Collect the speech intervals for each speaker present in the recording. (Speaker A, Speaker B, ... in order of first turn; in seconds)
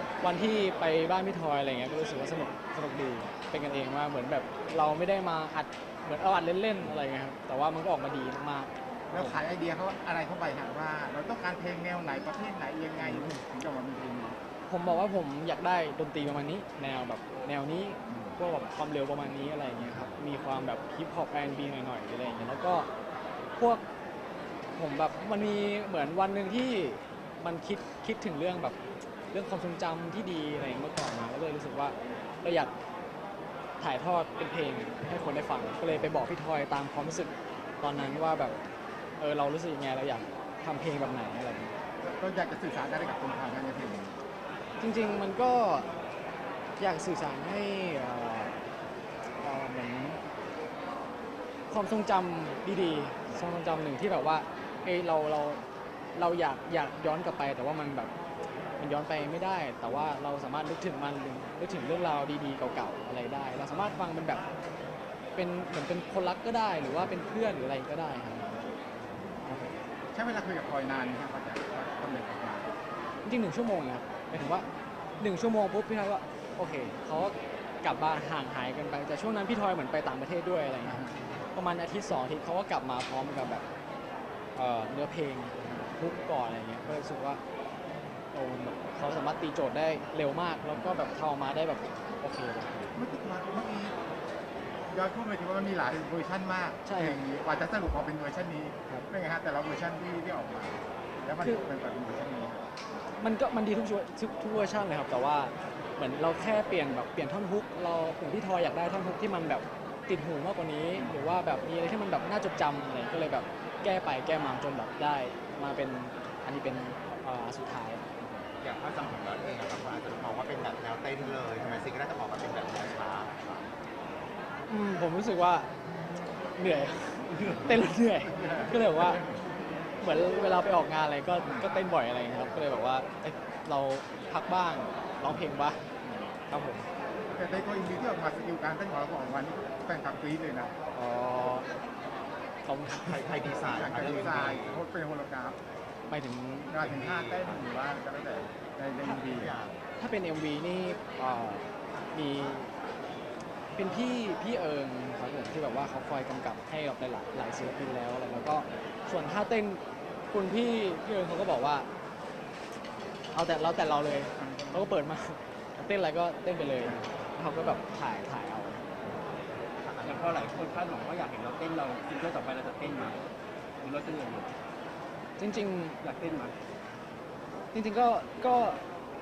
Speaker A: 0.2-9.4, 13.0-13.4, 14.7-22.9, 23.6-23.8, 24.8-28.8, 29.3-32.7, 33.8-38.5, 39.2-41.7, 44.8-45.9, 46.8-48.5, 49.4-50.2, 51.7-55.6, 56.1-58.1, 58.8-64.4, 65.3-68.7, 73.2-74.7, 75.2-81.0, 81.5-83.6, 84.5-87.4, 88.3-92.9, 96.8-97.2, 101.4-101.6, 103.2-118.0, 124.7-125.7, 126.5-129.2, 130.0-135.8, 136.5-136.8, 140.9-141.7, 142.6-143.3, 146.1-146.7, 150.0-151.6, 152.1-152.7, 153.8-161.9, 163.3-168.8, 175.4-176.0, 177.7-178.8
Speaker B: 9.1-14.4, 42.0-44.1, 69.4-72.7, 80.8-81.2, 92.9-93.9, 94.9-102.6, 111.0-111.2, 128.3-129.3, 136.0-136.3, 137.3-140.7, 143.5-145.6, 146.7-149.5, 164.4-164.9
Speaker C: 118.6-123.7, 143.0-144.8, 146.8-147.7, 149.3-149.8, 169.8-170.6
Speaker D: 170.0-173.2, 173.8-174.5, 176.0-176.5